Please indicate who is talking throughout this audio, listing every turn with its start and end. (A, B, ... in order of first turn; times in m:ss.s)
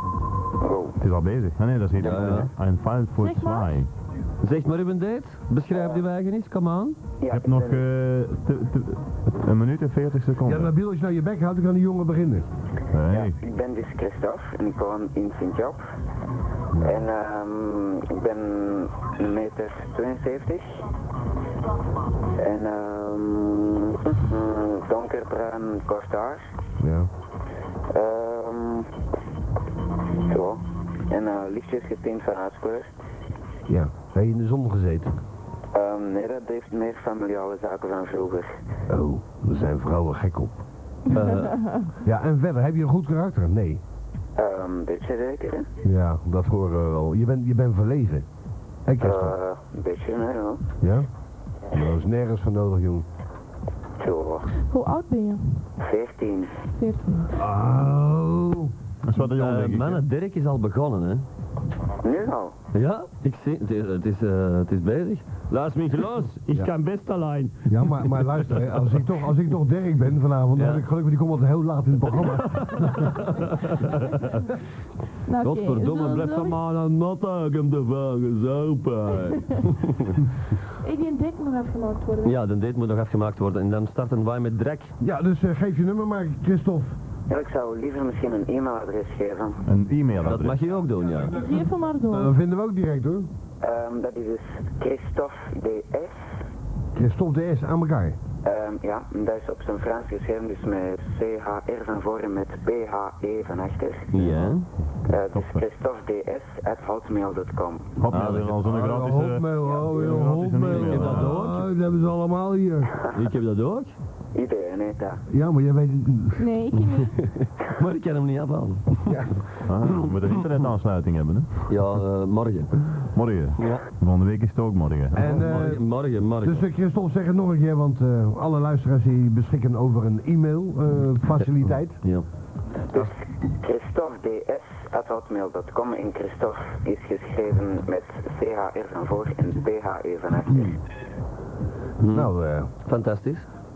0:00.6-0:01.0 A
0:01.0-0:03.9 B
0:02.0-0:02.5 C
0:03.2-0:03.8 D
0:04.4-0:07.0 C
0:07.2-0:07.8 A
0:07.3-0:10.7 B
0:10.4-0:12.5 E
0:12.9-0:13.4 B
0:13.1-0:15.8 A
0:16.7-0:17.1 E
0:16.8-0:20.7 A
0:22.4-0:26.5 A
0:26.8-0:27.1 E
0:27.9-0:28.9 A
0:30.2-0:32.9 A
0:33.7-0:35.1 E
0:35.7-0:38.5 A
0:38.9-0:40.6 E
0:41.1-0:41.6 C
0:41.2-0:41.9 D
0:42.0-0:43.8 E
0:44.4-0:45.7 A
0:45.8-0:48.2 E
0:48.8-0:49.4 E
0:49.0-0:50.6 A
0:50.8-0:51.1 E
0:51.7-0:53.0 E
0:54.0-0:54.5 A
0:54.7-0:55.7 D
0:55.8-0:56.5 A
0:56.8-0:57.3 D
0:57.3-0:58.7 E
0:59.0-1:00.0 B
0:59.3-1:01.2 C
1:02.0-1:02.5 A
1:02.7-1:08.9 C
1:07.7-1:13.2 E
1:10.6-1:10.8 C
1:12.1-1:14.4 C
1:15.3-1:16.6 D
1:15.4-1:20.2 C
1:20.8-1:22.4 D
1:22.2-1:24.9 C
1:25.0-1:27.0 E
1:27.3-1:29.6 A
1:29.6-1:30.7 B
1:30.2-1:31.4 C
1:31.3-1:32.3 D
1:32.1-1:33.3 E
1:33.6-1:36.1 A
1:36.9-1:38.2 E
1:38.4-1:44.4 A
1:44.1-1:44.7 C
1:45.1-1:47.9 A
1:45.3-1:45.6 B
1:48.0-1:51.4 B
1:48.1-1:48.6 C
1:48.6-1:53.0 E
1:50.6-1:51.7 C
1:53.1-1:53.9 C
1:54.3-1:55.2 A
1:55.3-1:56.5 E
1:56.4-1:57.1 D
1:57.0-1:59.2 C
1:59.1-1:59.4 E
1:59.6-2:01.7 B
1:59.9-2:00.4 C
2:01.7-2:03.0 C
2:03.1-2:05.2 B
2:05.1-2:05.9 E
2:05.1-2:06.6 C
2:06.4-2:12.0 E
2:12.9-2:20.8 A
2:22.0-2:23.5 C
2:22.1-2:22.7 E